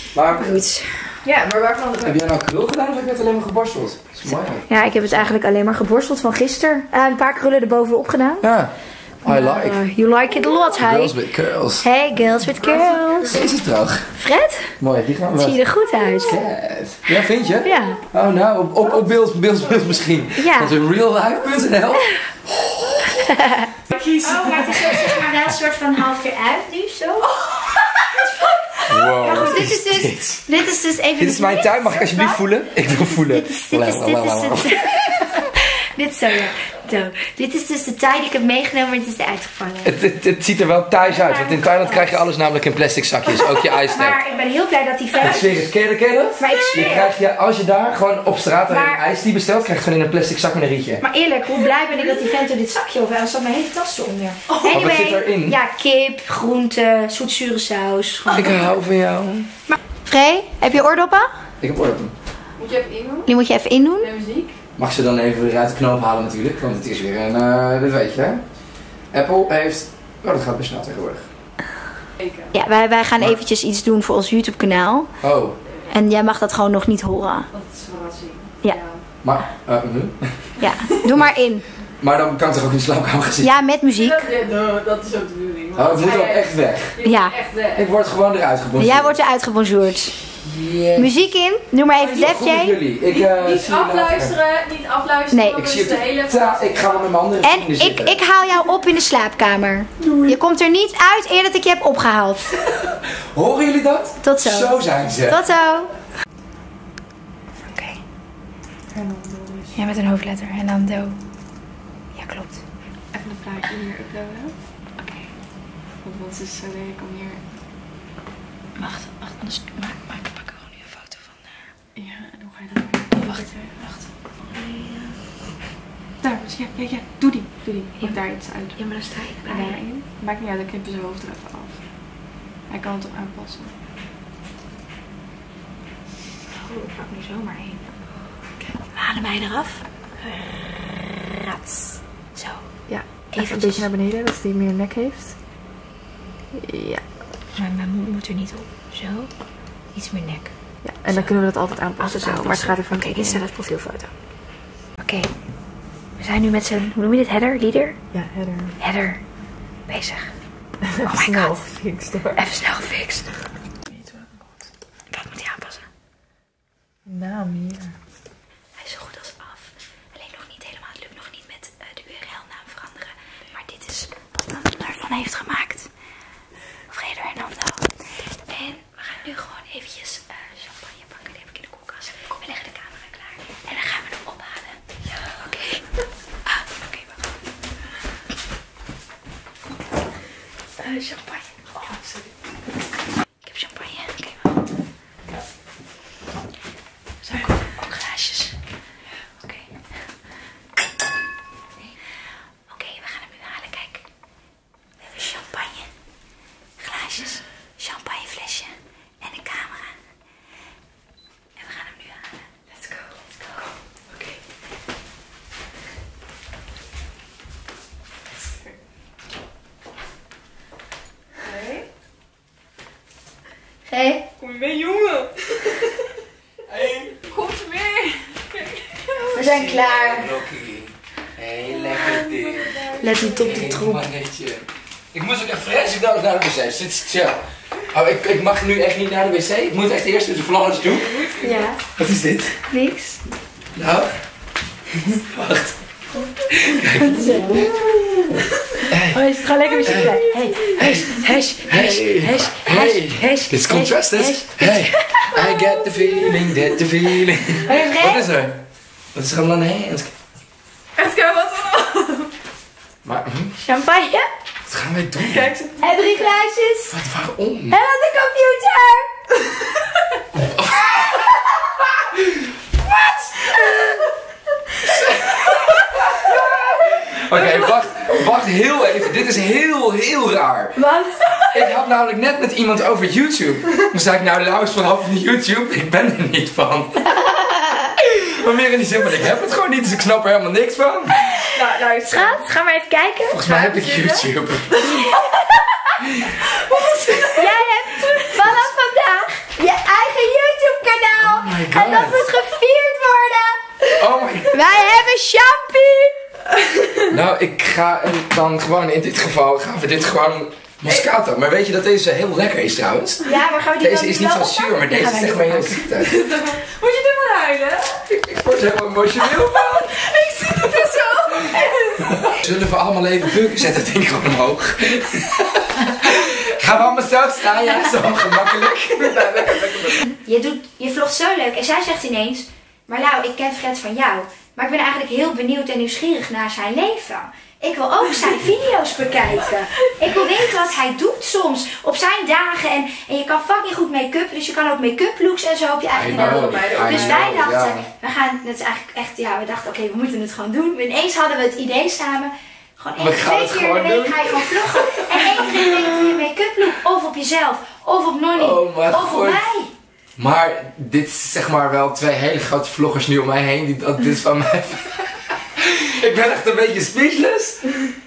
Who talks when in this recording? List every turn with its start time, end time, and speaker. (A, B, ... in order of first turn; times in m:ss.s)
0:00.1-0:00.5 A
0:00.3-0:01.2 B
0:01.2-0:02.2 C
0:02.0-0:04.7 A
0:04.2-0:08.4 B
0:08.4-0:08.7 A
0:09.2-0:09.8 A
0:09.3-0:11.2 B
0:10.8-0:11.8 A
0:11.8-0:13.4 B
0:12.7-0:13.1 C
0:13.3-0:14.1 A
0:14.2-0:14.8 B
0:14.8-0:15.6 A
0:15.4-0:16.4 B
0:16.2-0:23.1 A
0:17.1-0:18.0 B
0:20.4-0:20.8 B
0:23.1-0:23.7 B
0:23.9-0:25.3 C
0:24.2-0:27.4 B
0:27.3-0:28.6 C
0:28.1-0:32.4 B
0:28.9-0:30.5 A
0:31.2-0:34.8 A
0:33.1-0:39.9 B
0:39.8-0:44.2 A
0:41.0-0:42.3 B
0:43.3-0:45.7 B
0:45.2-0:51.0 A
0:46.4-0:47.1 B
0:46.5-0:47.0 C
0:48.7-0:49.0 B
0:51.0-0:58.7 B
0:51.8-0:52.2 C
0:54.6-0:55.6 A
0:58.3-0:59.5 A
0:59.7-1:01.3 B
1:01.6-1:02.1 A
1:02.6-1:03.3 C
1:03.3-1:04.1 B
1:04.0-1:04.6 C
1:04.8-1:08.4 A
1:09.1-1:11.3 A
1:12.2-1:12.5 C
1:12.5-1:15.1 B
1:15.2-1:15.6 A
1:15.9-1:17.5 B
1:17.5-1:19.0 C
1:19.2-1:20.5 A
1:20.6-1:21.6 B
1:22.0-1:23.5 A
1:23.4-1:24.3 B
1:23.9-1:27.8 C
1:25.8-1:27.0 A
1:27.0-1:27.4 B
1:27.7-1:29.2 A
1:28.8-1:30.2 B
1:30.4-1:31.2 A
1:30.9-1:32.8 B
1:32.0-1:34.4 A
1:33.1-1:37.1 C
1:35.3-1:35.6 B
1:35.5-1:38.2 A
1:37.4-1:42.6 B
1:40.0-1:40.4 C
1:42.7-1:45.4 A
1:44.2-1:45.9 B
1:47.7-1:48.0 B
1:48.9-1:49.8 C
1:49.8-1:51.2 B
1:52.2-1:52.6 B
1:53.1-1:54.6 C
1:56.0-1:57.4 C
1:58.8-2:01.6 B
2:02.0-2:03.9 C
2:03.2-2:03.9 B
2:04.5-2:05.2 B
2:06.2-2:08.8 C
2:08.7-2:09.8 B
2:09.4-2:11.9 C
2:12.7-2:13.8 C
2:16.5-2:17.8 B
2:18.9-2:20.4 B
2:21.3-2:22.6 B
2:22.9-2:25.3 C
2:23.3-2:23.9 B
2:26.5-2:27.0 C
2:27.6-2:29.3 B
2:29.9-2:30.5 B
2:30.8-2:34.1 C
2:32.0-2:33.8 B
2:35.0-2:35.3 B
2:36.2-2:38.0 B
2:38.1-2:38.8 C
2:38.8-2:39.2 B
2:39.9-2:40.3 B
2:40.9-2:42.4 C
2:41.0-2:41.6 B
2:42.4-2:43.3 B
2:43.9-2:44.5 C
2:45.1-2:45.8 B
2:47.1-2:47.9 C
2:48.8-2:55.9 B
2:56.9-2:57.9 B
2:58.5-3:04.8 B
3:05.4-3:05.8 B
3:06.5-3:07.2 B
3:10.8-3:11.6 B
3:11.9-3:12.2 C
3:13.4-3:14.5 B
3:17.2-3:18.6 B
3:19.4-3:19.7 B
3:22.7-3:24.0 B
3:25.0-3:25.9 B
3:26.8-3:29.9 B
3:31.6-3:32.3 B
3:32.7-3:33.6 C
3:38.4-3:38.8 C
3:41.4-3:41.8 C
3:43.9-3:44.3 B
3:44.4-3:46.1 C
3:46.7-3:47.1 A
3:46.9-3:49.4 C
3:49.3-3:50.3 B
3:49.3-3:52.8 A
3:51.7-3:53.4 C
3:52.9-3:54.1 B
3:53.4-3:57.4 A
3:57.9-4:01.2 A
4:00.9-4:01.8 C
4:01.4-4:01.8 B
4:02.0-4:02.6 A
4:02.7-4:03.2 B
4:03.8-4:04.1 A
4:05.1-4:05.8 A
4:06.6-4:07.4 A
4:07.0-4:07.7 B
4:07.5-4:07.8 C
4:08.9-4:09.2 A
4:09.1-4:15.3 B
4:09.7-4:10.7 C
4:09.8-4:11.1 A
4:11.7-4:18.6 A
4:17.6-4:18.3 B
4:19.1-4:20.1 A
4:21.0-4:22.3 C
4:23.0-4:23.6 A
4:23.6-4:24.3 B
4:24.7-4:25.5 A
4:25.2-4:25.8 C
4:25.8-4:27.0 B
4:26.8-4:27.8 A
4:27.7-4:29.1 B
4:30.3-4:31.3 A
4:32.2-4:32.5 A
4:33.5-4:33.9 B
4:36.2-4:40.8 A
4:36.9-4:37.7 C
4:40.8-4:41.7 B
4:41.4-4:47.0 A
4:47.1-4:47.9 B
4:48.0-4:51.3 A
4:51.4-4:52.5 C
4:52.1-4:53.4 B
4:53.3-4:54.8 A
4:53.4-4:55.1 C
4:55.0-4:55.4 B
4:56.5-4:58.3 C
4:57.3-5:06.1 B
5:01.2-5:02.3 A
5:04.0-5:04.8 A
5:07.1-5:13.2 A
5:13.2-5:15.9 B
5:13.8-5:16.1 A
5:16.0-5:18.1 C
5:18.1-5:20.0 A
5:19.3-5:22.4 C
5:22.3-5:30.0 A
5:28.8-5:30.0 C
5:30.1-5:59.7 B
5:45.9-5:47.8 A
5:46.0-5:47.5 C
5:53.0-5:56.2 A
5:58.3-5:59.4 A
6:00.2-6:07.8 A